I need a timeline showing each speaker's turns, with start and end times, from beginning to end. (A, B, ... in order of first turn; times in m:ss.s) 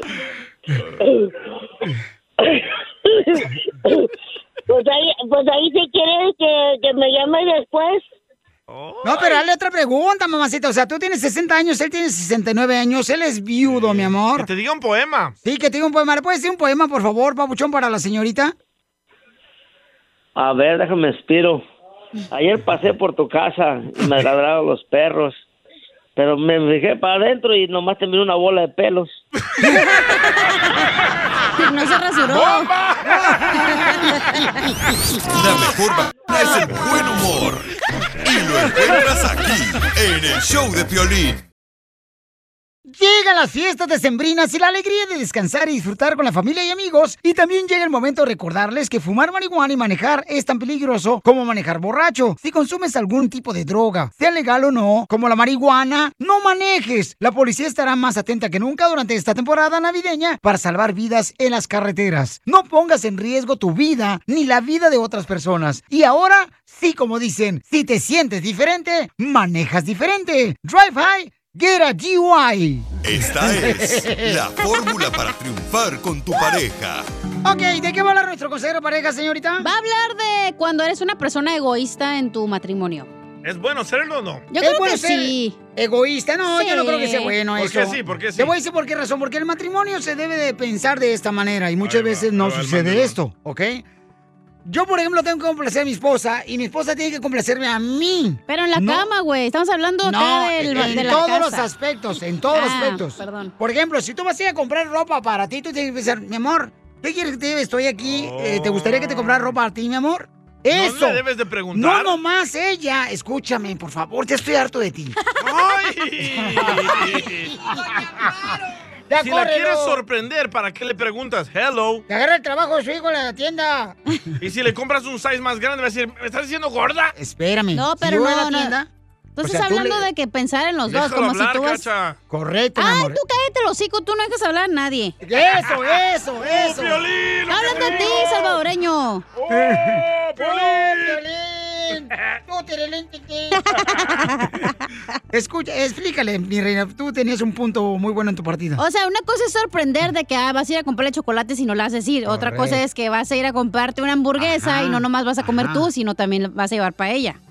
0:02.4-0:04.1 A
0:04.7-0:08.1 A
0:08.7-0:09.4 B
0:09.0-0:14.5 C
0:13.6-0:15.4 B
0:15.4-0:18.5 C
0:20.4-0:21.6 D
0:22.3-0:25.4 D
0:26.2-0:29.2 D
0:29.9-0:30.2 E
0:31.6-0:32.7 E
0:32.3-0:33.2 B
0:35.3-0:37.7 F
0:38.2-0:41.4 F
0:42.9-1:12.9 C
1:13.0-1:17.1 F
1:13.4-1:14.4 C
1:17.4-1:19.7 C
1:19.6-1:23.1 E
1:23.4-1:24.5 B
1:24.5-1:25.6 E
1:24.6-1:33.8 C
1:26.5-1:27.4 E
1:27.6-1:28.5 B
1:31.8-1:33.2 B
1:34.6-1:39.1 C
1:38.5-1:41.7 E
1:40.0-1:55.2 C
1:42.5-1:43.5 E
1:48.0-1:49.6 B
1:50.7-1:52.2 B
1:55.4-1:57.6 B
1:56.6-1:57.2 C
1:59.1-2:00.0 C
1:59.2-2:02.0 B
2:02.1-2:04.0 C
2:04.4-2:07.1 B
2:07.2-2:08.9 C
2:07.7-2:08.8 E
2:09.4-2:11.9 E
2:09.4-2:10.0 C
2:10.9-2:12.2 B
2:12.3-2:13.2 C
2:12.8-2:15.2 E
2:15.2-2:17.0 C
2:16.4-2:18.6 B
2:17.5-2:19.2 E
2:17.8-2:18.1 C
2:19.4-2:21.2 B
2:19.5-2:23.7 C
2:23.7-2:24.6 E
2:25.3-2:28.8 C
2:28.8-2:37.4 E
2:32.2-2:32.8 C
2:34.4-2:35.9 C